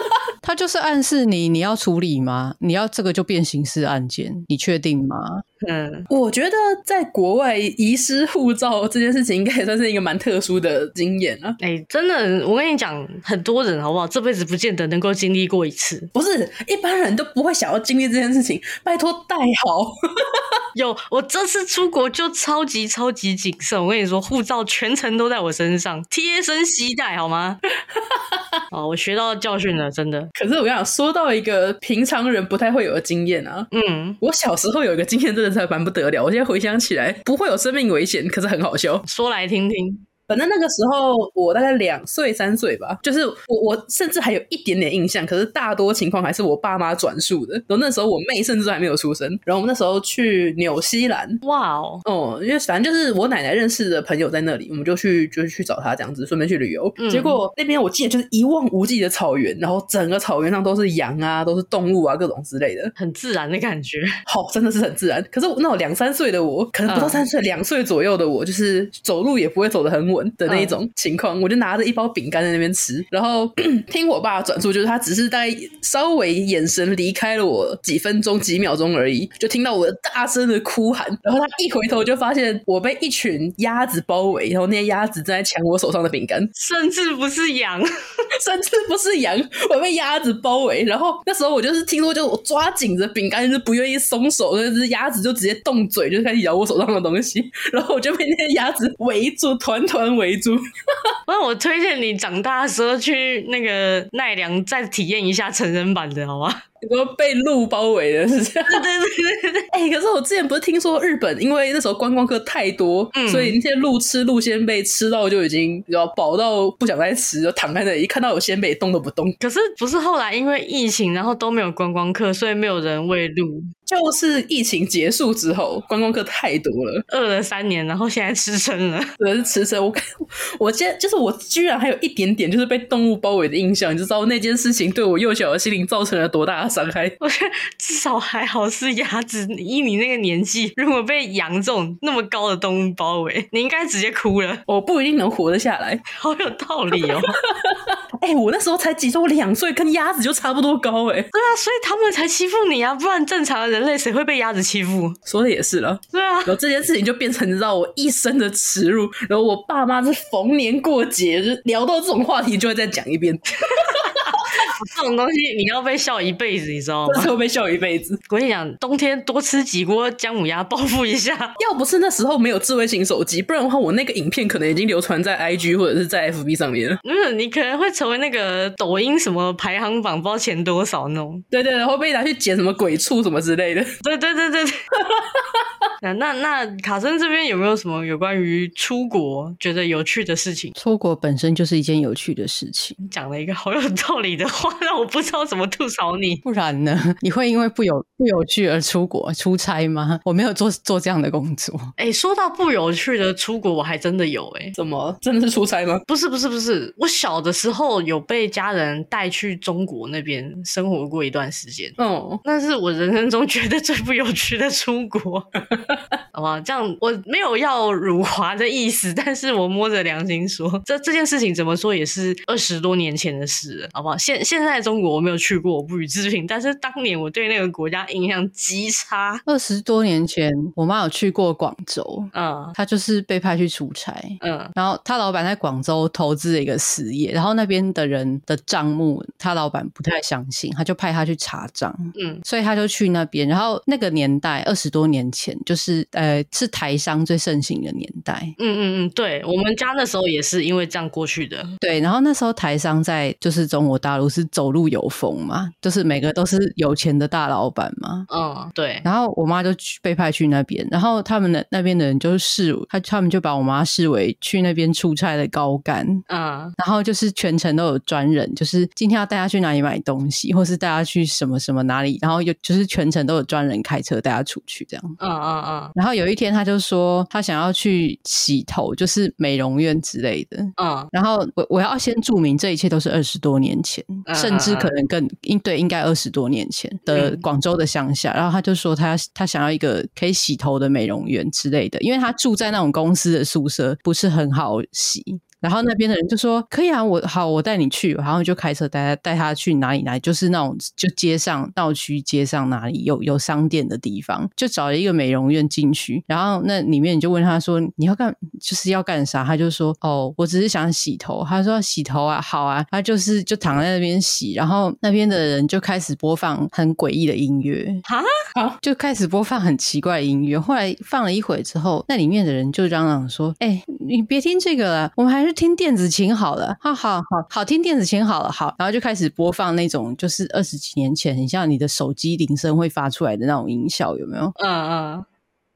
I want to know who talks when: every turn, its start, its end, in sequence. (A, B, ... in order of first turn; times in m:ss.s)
0:00.4-0:05.4 A
0:05.6-0:06.1 B
0:06.1-0:11.6 C
0:11.6-0:16.1 B
0:16.1-0:20.4 C
0:20.8-0:27.6 B
0:28.7-0:30.3 B
0:30.4-0:33.7 C
0:33.7-0:34.2 B
0:34.2-0:39.0 C
0:39.0-0:40.0 B
0:40.3-0:51.4 C
0:51.4-0:52.0 B
0:52.0-1:02.9 C
0:57.0-0:57.4 B
1:03.0-1:04.1 B
1:04.3-1:26.5 C
1:06.9-1:07.2 B
1:10.5-1:10.8 B
1:26.6-1:27.9 B
1:28.4-1:40.6 C
1:41.3-1:46.6 B
1:46.8-1:48.9 C
1:48.7-1:49.7 B
1:49.7-1:59.4 C
1:53.1-1:53.6 B
1:59.4-2:03.7 B
2:03.9-2:07.0 C
2:07.1-2:09.1 B
2:09.2-2:17.2 C
2:17.2-2:24.6 B
2:24.7-2:26.0 C
2:26.1-2:27.4 B
2:27.0-2:31.3 C
2:31.3-2:35.2 B
2:35.3-2:44.3 C
2:36.1-2:36.6 B
2:43.7-2:47.3 B
2:47.1-2:48.2 C
2:48.3-2:51.6 B
2:51.6-2:57.0 C
2:57.0-3:01.4 B
3:01.5-3:04.0 C
3:04.0-3:04.8 B
3:05.1-3:05.5 C
3:06.0-3:10.7 B
3:10.8-3:13.0 A
3:13.0-3:16.4 B
3:16.4-3:21.9 A
3:22.0-3:24.8 B
3:24.8-3:26.0 C
3:26.1-3:35.5 B
3:32.0-3:32.4 C
3:36.3-3:49.4 B
3:49.5-4:08.6 A
3:52.3-3:52.8 B
3:54.4-3:54.7 B
4:02.2-4:02.4 B
4:08.6-4:11.7 B
4:11.8-4:18.3 A
4:18.3-4:19.0 B
4:19.0-4:26.2 A
4:26.3-4:26.8 B
4:26.8-4:35.2 A
4:35.2-4:35.9 B
4:36.0-5:18.0 A
4:40.8-4:41.1 B
4:44.3-4:44.9 B
4:47.1-4:47.4 B
5:18.1-5:18.3 B
5:18.8-5:34.6 A
5:34.6-5:35.2 B